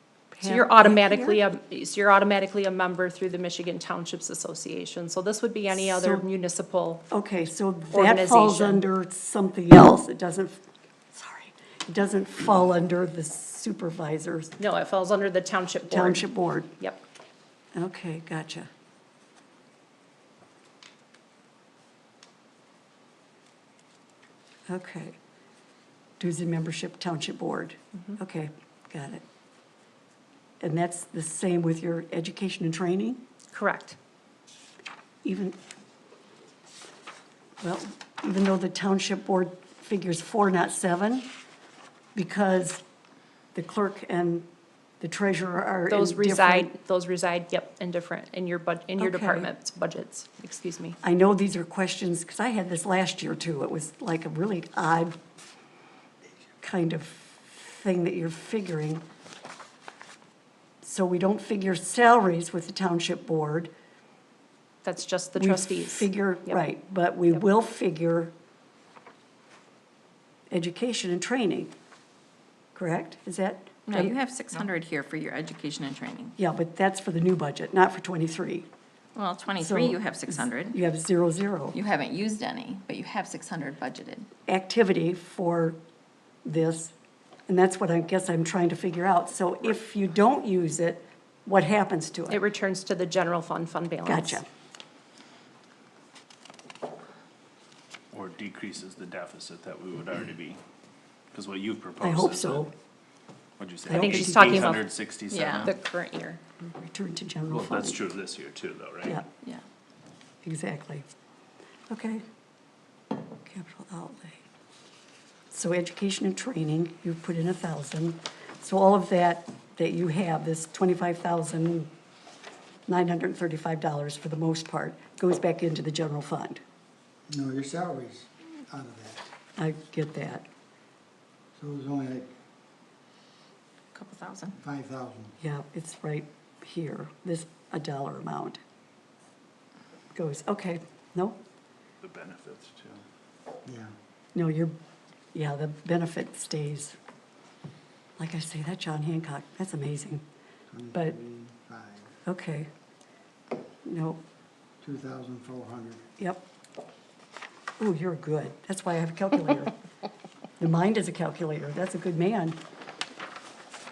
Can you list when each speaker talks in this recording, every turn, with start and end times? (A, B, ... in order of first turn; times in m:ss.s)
0:00.3-0:01.4 A
0:00.4-0:07.1 B
0:05.7-0:06.2 A
0:07.1-0:14.5 A
0:07.9-0:08.8 B
0:14.6-0:16.3 B
0:15.9-0:16.7 A
0:17.7-0:18.7 A
0:24.7-0:25.2 A
0:26.2-0:29.2 A
0:30.6-0:33.2 A
0:33.5-0:34.0 B
0:35.2-0:35.6 A
0:37.6-0:41.3 A
0:42.1-0:42.8 A
0:43.5-0:44.5 A
0:45.0-0:46.7 A
0:45.9-0:51.0 B
0:49.0-0:49.5 A
0:51.0-0:55.2 A
0:56.6-0:59.0 A
1:00.8-1:03.7 A
1:04.8-1:06.6 B
1:05.4-1:08.3 A
1:10.5-1:11.7 A
1:12.7-1:14.1 A
1:13.9-1:16.3 C
1:16.4-1:18.7 A
1:19.1-1:20.7 C
1:19.6-1:21.8 A
1:21.7-1:24.3 C
1:24.5-1:25.8 A
1:26.4-1:26.9 A
1:27.5-1:32.4 A
1:32.3-1:34.4 B
1:34.0-1:34.4 A
1:38.1-1:40.6 D
1:41.3-1:42.7 D
1:42.0-1:42.7 A
1:43.6-1:45.7 D
1:43.9-1:44.8 A
1:43.9-1:44.8 B
1:45.3-1:45.7 C
1:45.6-1:46.4 B
1:46.6-1:48.0 A
1:47.5-1:49.2 D
1:50.4-1:51.0 A
1:51.9-1:52.2 A
1:53.4-1:54.4 A
1:55.5-2:01.9 A
2:02.9-2:06.6 A
2:07.3-2:09.3 E
2:09.6-2:10.4 A
2:11.6-2:12.3 E
2:13.9-2:14.6 C
2:14.6-2:15.3 E
2:15.4-2:18.6 A
2:20.1-2:21.4 A
2:22.0-2:23.0 D
2:23.6-2:23.9 E
2:24.3-2:24.8 A
2:25.3-2:27.0 A
2:28.2-2:30.2 A
2:30.7-2:32.1 E
2:32.2-2:32.7 A
2:33.8-2:34.2 A
2:34.8-2:36.1 E
2:36.2-2:36.4 A
2:37.8-2:39.7 A
2:40.6-2:42.6 A